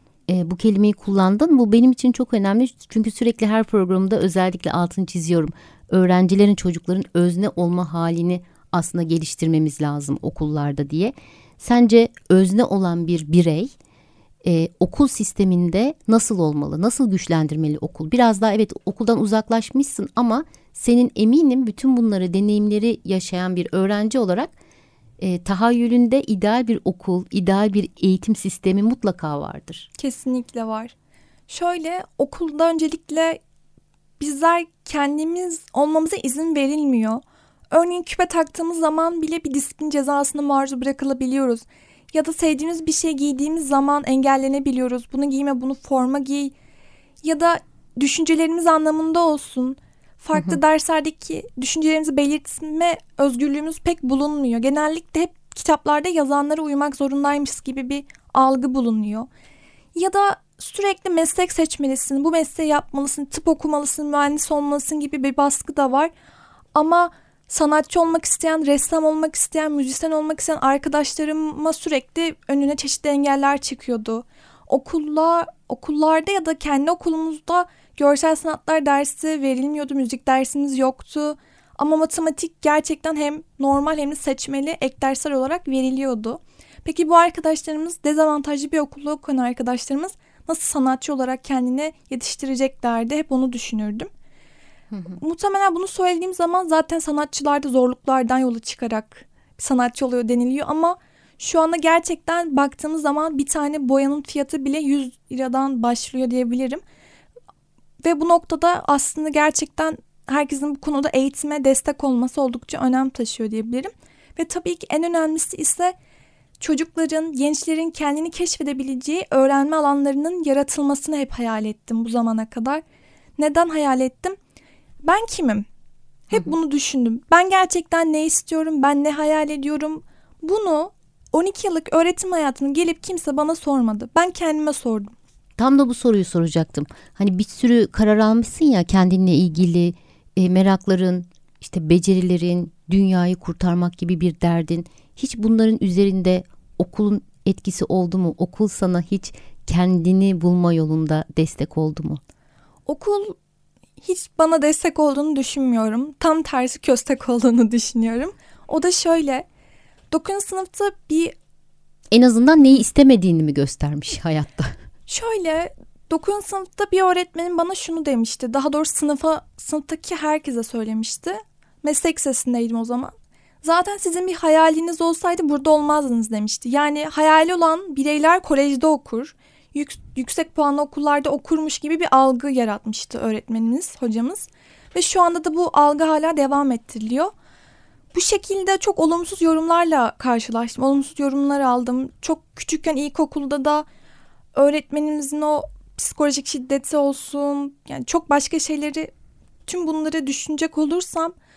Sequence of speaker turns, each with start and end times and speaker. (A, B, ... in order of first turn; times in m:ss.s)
0:00.3-0:13.7 A
0:14.4-0:24.5 A
0:25.2-0:29.9 A
0:30.0-0:30.9 B
0:31.5-0:33.4 B
0:34.2-0:46.5 B
0:47.2-0:59.3 B
0:59.9-1:06.1 B
1:06.7-1:34.1 B
1:34.9-1:35.2 A
1:35.2-1:46.8 B
1:48.0-1:55.9 B
1:56.6-2:02.8 B
2:03.4-2:04.4 B
2:05.0-2:05.6 B
2:06.3-2:15.1 B
2:15.6-2:32.2 A
2:32.9-2:33.4 B
2:34.0-2:39.4 B
2:40.1-2:41.3 B
2:42.1-2:44.7 A
2:45.1-3:07.3 B
3:08.1-3:13.8 B
3:14.5-3:19.1 B
3:19.7-3:21.3 B